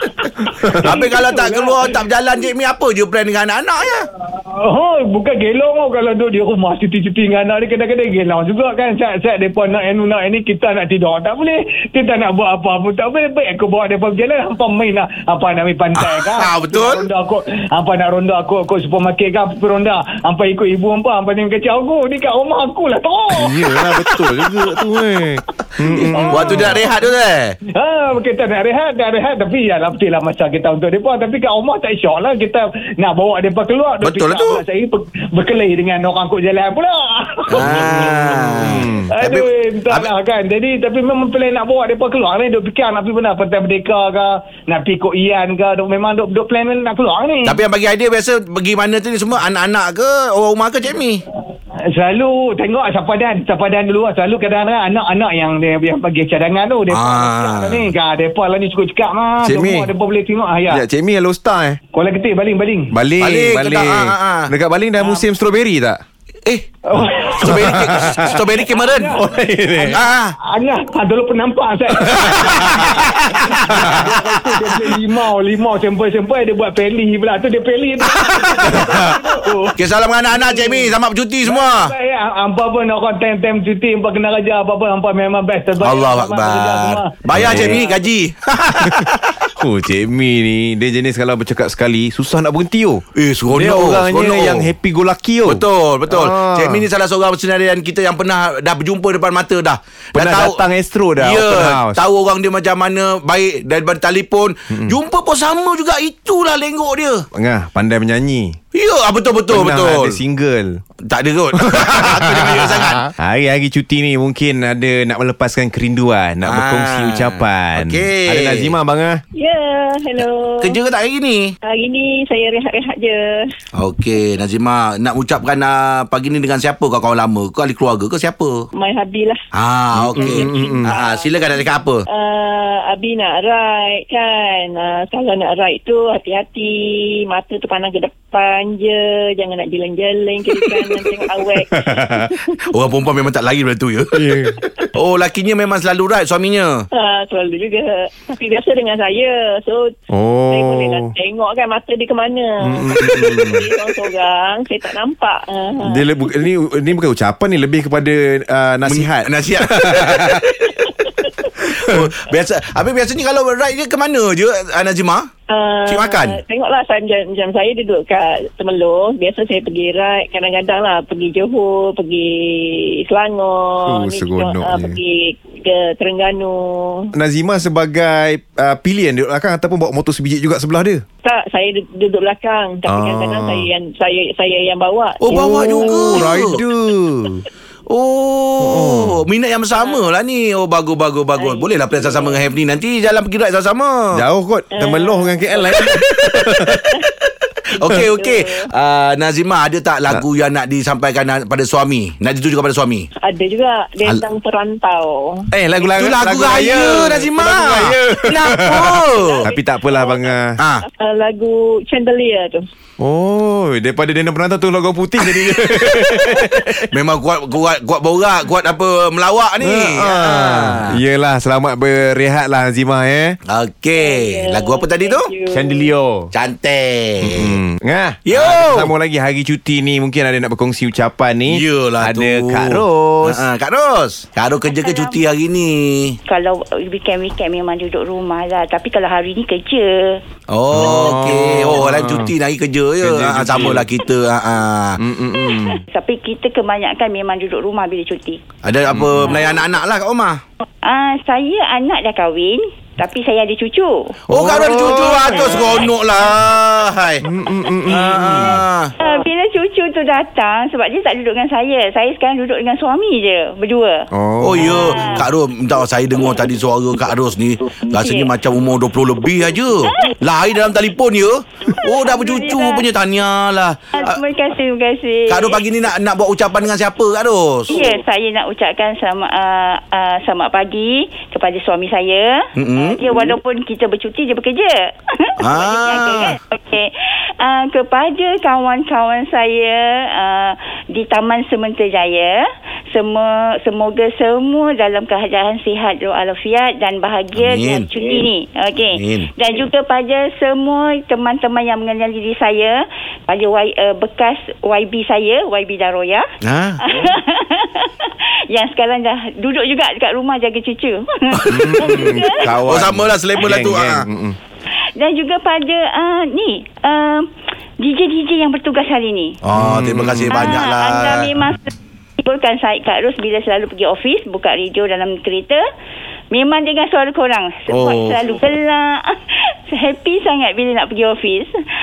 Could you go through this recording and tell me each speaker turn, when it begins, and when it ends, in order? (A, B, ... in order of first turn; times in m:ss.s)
0:00.6-0:00.9 A
0:00.8-0:04.1 B
0:00.8-0:01.8 C
0:04.3-0:23.9 C
0:16.0-0:17.0 B
0:23.4-0:26.8 A
0:25.9-0:27.6 B
0:26.2-0:26.8 C
0:27.7-0:38.0 C
0:34.0-0:34.6 B
0:37.5-0:39.1 A
0:37.5-0:40.1 B
0:39.1-0:47.5 C
0:47.4-0:51.2 B
0:51.9-1:00.8 C
0:56.9-0:57.9 B
0:59.4-0:59.9 A
1:00.7-1:01.8 A
1:01.9-1:02.9 C
1:02.9-1:06.0 A
1:03.2-1:04.5 B
1:06.9-1:07.3 C
1:07.3-1:09.2 B
1:07.5-1:08.4 A
1:08.7-1:09.2 C
1:09.2-1:10.0 A
1:09.9-1:10.3 B
1:10.4-1:12.8 C
1:12.0-1:14.8 A
1:12.4-1:13.6 B
1:13.6-1:19.8 C
1:18.2-1:19.0 B
1:18.7-1:19.2 A
1:19.8-1:21.9 B
1:20.3-1:28.0 C
1:25.8-1:29.4 B
1:27.3-1:27.8 A
1:28.8-1:29.1 A
1:29.6-1:36.9 A
1:33.1-1:34.7 B
1:35.4-1:40.6 B
1:40.2-1:42.0 A
1:41.2-1:47.2 B
1:44.7-1:45.0 A
1:47.3-1:48.6 A
1:48.7-1:50.2 B
1:49.5-1:50.8 A
1:51.1-1:53.0 B
1:51.7-1:59.2 A
1:56.4-1:58.7 B
1:59.3-2:00.8 D
2:00.6-2:01.5 B
2:01.6-2:03.4 D
2:03.8-2:08.7 B
2:08.7-2:09.4 D
2:09.5-2:12.0 B
2:10.0-2:10.9 A
2:10.4-2:22.4 D
2:21.7-2:22.3 A
2:22.6-2:24.2 B
2:24.1-2:24.7 A
2:24.9-2:26.8 B
2:26.9-2:29.9 D
2:30.1-2:31.1 A
2:30.4-2:36.1 D
2:32.6-2:33.7 A
2:35.8-2:40.4 A
2:38.9-2:40.8 B
2:41.6-2:42.0 A
2:41.7-2:45.3 B
2:45.5-2:57.1 D
2:45.8-2:46.4 B
2:53.8-2:55.0 A
2:57.1-3:01.0 A
3:01.2-3:06.3 D
3:02.9-3:03.7 A
3:05.2-3:06.6 B
3:05.3-3:07.4 A
3:07.9-3:14.2 B
3:08.6-3:09.2 A
3:09.7-3:10.1 D
3:11.3-3:12.5 D
3:14.1-3:16.9 A
3:14.7-3:15.8 D
3:15.9-3:16.7 B
3:17.8-3:23.1 B
3:17.8-3:18.7 D
3:23.2-3:25.5 D
3:25.5-3:30.6 A
3:25.8-3:29.5 B
3:29.2-3:30.3 D
3:30.6-3:30.8 B
3:31.0-3:32.6 D
3:33.0-3:36.7 A
3:35.5-3:40.9 B
3:39.6-3:43.4 A
3:43.4-3:45.3 B
3:43.9-3:45.8 D
3:45.5-3:46.3 A
3:46.3-3:47.5 B
3:47.2-3:53.4 A
3:48.3-3:48.9 B
3:51.5-3:56.2 B
3:54.6-3:55.2 E
3:56.2-4:00.2 E
4:00.5-4:05.0 B
4:00.7-4:02.3 A
4:03.0-4:03.9 A
4:05.0-4:05.8 A
4:05.5-4:08.4 E
4:08.6-4:10.4 B
4:08.9-4:09.4 A
4:10.8-4:14.1 E
4:14.3-4:17.2 B
4:14.3-4:15.9 A
4:15.2-4:15.8 E
4:17.2-4:18.6 A
4:17.9-4:18.9 B
4:19.0-4:24.1 E
4:24.1-4:25.0 A
4:24.4-4:34.2 B
4:24.6-4:25.3 E
4:27.9-4:28.3 E
4:29.9-4:30.1 E
4:31.7-4:32.8 E
4:33.9-4:35.6 E
4:35.3-4:37.8 B
4:37.7-5:06.3 E
4:42.6-4:43.0 B
4:45.4-4:46.4 B
4:57.3-4:57.9 B
4:59.0-4:59.3 B
5:06.4-5:06.8 B
5:06.8-5:12.5 E
5:11.3-5:14.0 B
5:11.5-5:14.4 A
5:15.0-5:17.2 E
5:17.8-5:19.4 E
5:19.4-5:21.3 B
5:19.5-5:20.5 A
5:20.3-5:25.6 E
5:26.3-5:31.5 E
5:27.7-5:28.2 B